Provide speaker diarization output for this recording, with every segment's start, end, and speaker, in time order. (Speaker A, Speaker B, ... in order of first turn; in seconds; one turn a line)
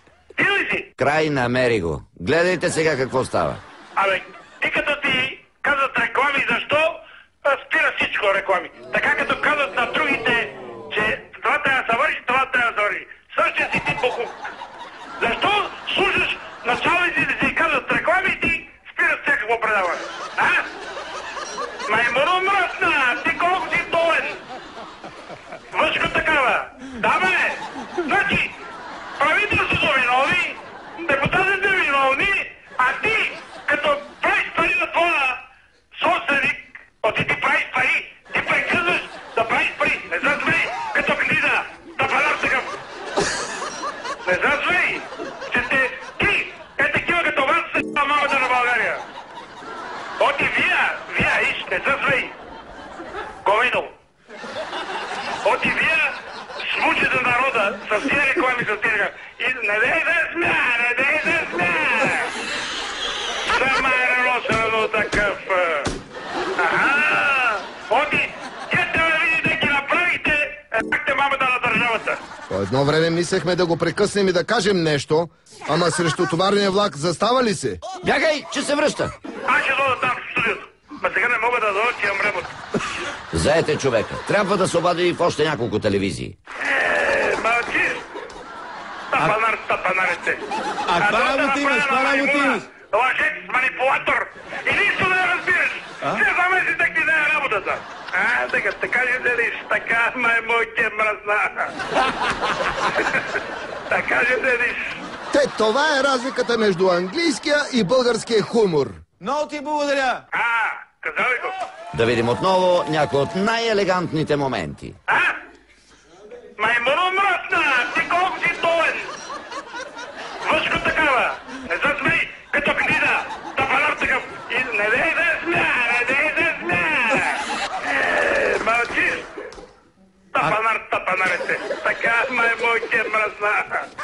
Speaker A: 0.4-0.9
Speaker B: 1.0-3.6
Speaker A: 4.0-14.5
Speaker A: 15.2-20.7
Speaker A: 21.9-24.4
Speaker A: 25.7-28.6
Speaker A: 29.2-35.4
Speaker A: 36.0-42.8
Speaker A: 44.2-49.0
Speaker A: 50.2-52.4
Speaker A: 53.4-54.0
Speaker A: 55.4-62.3
Speaker A: 63.5-65.9
Speaker A: 66.6-72.2
Speaker C: 72.5-77.8
Speaker B: 78.0-79.1
Speaker A: 79.5-82.5
Speaker B: 83.3-86.3
Speaker A: 86.6-88.0
Speaker A: 89.1-90.4
Speaker D: 90.9-92.6
Speaker A: 91.0-101.7
Speaker A: 103.0-103.2
Speaker A: 103.9-105.0
Speaker C: 105.3-109.0
Speaker D: 109.2-110.2
Speaker A: 110.3-111.5
Speaker B: 111.9-115.0
Speaker A: 115.1-115.4
Speaker A: 116.6-119.1
Speaker A: 120.4-129.3
Speaker A: 130.3-133.9